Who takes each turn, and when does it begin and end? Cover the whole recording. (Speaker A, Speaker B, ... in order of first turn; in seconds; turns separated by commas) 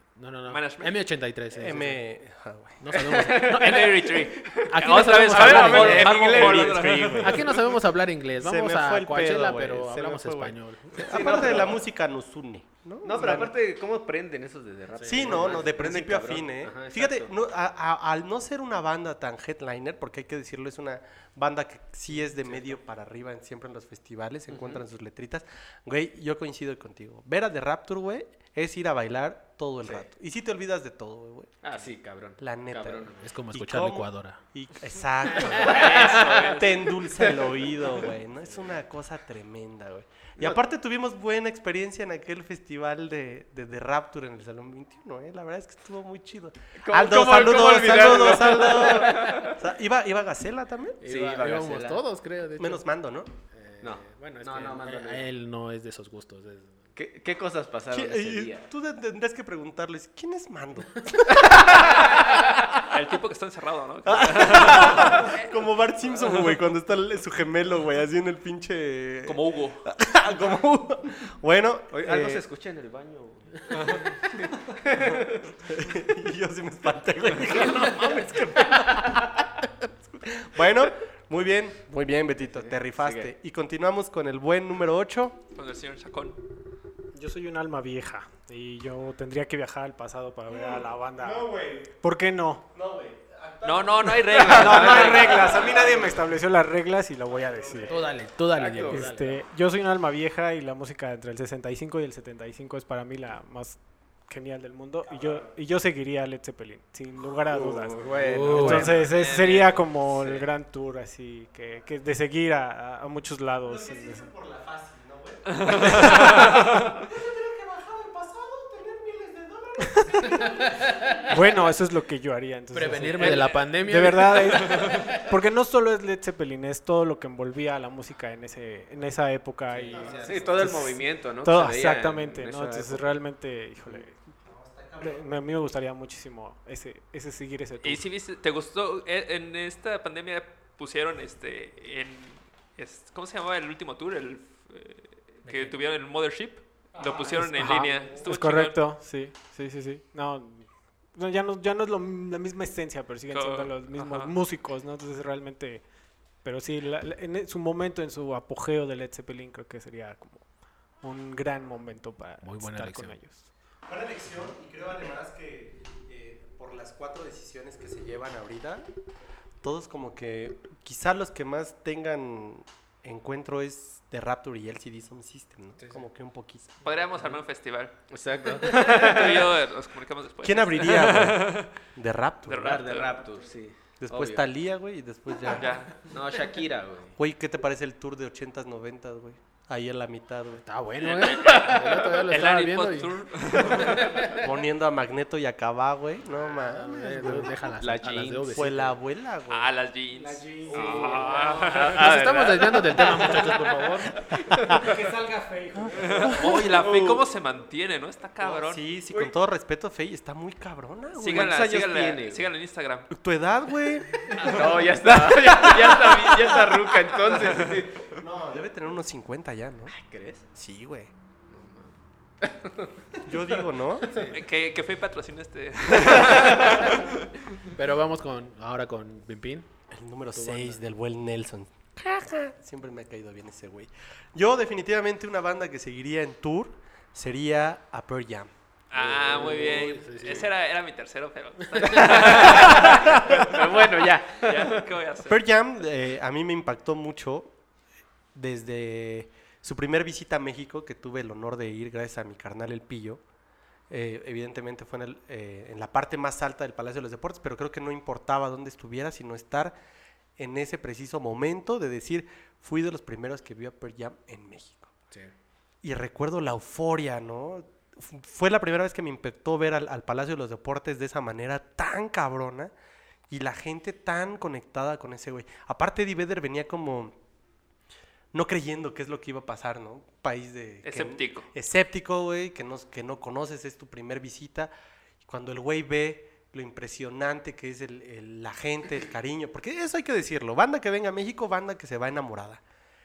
Speaker A: 0.2-2.0, Speaker B: 0.5-0.9, Speaker C: 1.5-2.8, Speaker A: 2.8-4.1, Speaker D: 2.9-7.4, Speaker B: 3.5-7.5, Speaker A: 4.6-11.5, Speaker E: 6.6-7.4, Speaker C: 8.4-13.5, Speaker D: 10.9-11.8, Speaker D: 13.1-17.3, Speaker A: 14.9-15.7, Speaker C: 15.1-51.0, Speaker D: 22.3-22.7, Speaker D: 24.5-24.8, Speaker D: 31.6-33.3, Speaker A: 33.2-34.4, Speaker B: 35.5-36.9, Speaker D: 35.6-36.6, Speaker D: 37.2-38.7, Speaker D: 46.8-49.6, Speaker D: 51.0-52.0, Speaker A: 51.0-52.9, Speaker C: 52.6-53.3, Speaker A: 53.5-56.8, Speaker D: 53.8-55.3, Speaker D: 57.0-58.7, Speaker C: 57.9-62.7, Speaker B: 62.7-65.3, Speaker C: 64.0-72.4, Speaker B: 69.2-69.8, Speaker D: 71.9-75.6, Speaker B: 73.7-74.0, Speaker C: 75.6-85.4, Speaker D: 82.4-83.3, Speaker B: 85.5-86.4, Speaker E: 87.1-91.5, Speaker C: 90.5-91.9, Speaker E: 92.0-92.7, Speaker C: 92.7-96.2, Speaker B: 93.6-95.4, Speaker E: 94.3-98.0, Speaker D: 94.7-95.6, Speaker C: 97.3-98.0, Speaker A: 97.8-99.5, Speaker D: 98.5-99.1, Speaker E: 98.9-114.3, Speaker D: 107.5-110.5, Speaker A: 108.2-108.9, Speaker B: 109.0-109.6, Speaker C: 113.6-120.7, Speaker B: 115.5-116.4, Speaker E: 115.7-116.7, Speaker E: 120.1-120.4, Speaker A: 120.4-121.0, Speaker E: 121.2-134.2, Speaker A: 122.7-125.2, Speaker A: 129.7-130.8, Speaker C: 129.9-130.4, Speaker D: 130.1-133.2, Speaker C: 134.4-135.3, Speaker E: 135.0-138.0, Speaker B: 137.8-148.8, Speaker A: 145.4-145.8, Speaker E: 147.1-155.8, Speaker A: 147.1-147.5, Speaker B: 153.3-154.3, Speaker E: 156.4-160.5, Speaker E: 161.0-163.5, Speaker A: 162.4-163.2, Speaker C: 163.9-168.9, Speaker C: 169.6-176.7, Speaker B: 176.8-177.9, Speaker D: 178.1-179.5, Speaker B: 178.6-181.8, Speaker C: 180.4-182.8, Speaker B: 182.4-183.2, Speaker D: 182.6-184.5, Speaker C: 184.0-185.8, Speaker B: 185.5-186.1, Speaker D: 186.1-187.2, Speaker C: 187.2-190.7, Speaker A: 190.7-194.4, Speaker B: 191.0-194.3, Speaker C: 194.2-197.5, Speaker A: 196.6-199.0, Speaker D: 197.8-198.7, Speaker C: 198.5-199.7, Speaker B: 199.5-202.1, Speaker E: 200.2-202.0, Speaker D: 200.7-204.9, Speaker A: 201.3-204.2, Speaker E: 203.3-203.8, Speaker E: 204.7-206.7, Speaker C: 204.7-204.9, Speaker C: 205.8-206.7, Speaker B: 205.9-208.8, Speaker D: 206.4-207.2, Speaker C: 208.4-211.7, Speaker B: 211.2-213.1, Speaker D: 211.3-212.5, Speaker C: 213.1-219.9, Speaker D: 214.3-218.0, Speaker D: 219.9-220.5, Speaker C: 220.5-221.1, Speaker D: 221.5-223.4, Speaker C: 223.2-224.1, Speaker A: 224.1-224.4, Speaker B: 224.3-227.3, Speaker A: 227.7-229.7, Speaker C: 229.9-238.5, Speaker A: 230.3-230.8, Speaker B: 238.9-245.4, Speaker A: 238.9-240.5, Speaker A: 241.8-242.1, Speaker D: 241.9-244.9, Speaker C: 242.7-243.4, Speaker C: 245.3-247.6, Speaker C: 248.3-253.2, Speaker C: 253.9-259.8, Speaker C: 260.4-264.9, Speaker C: 265.8-272.7, Speaker C: 273.3-277.2, Speaker C: 278.3-284.7, Speaker B: 280.8-281.5, Speaker C: 285.2-292.6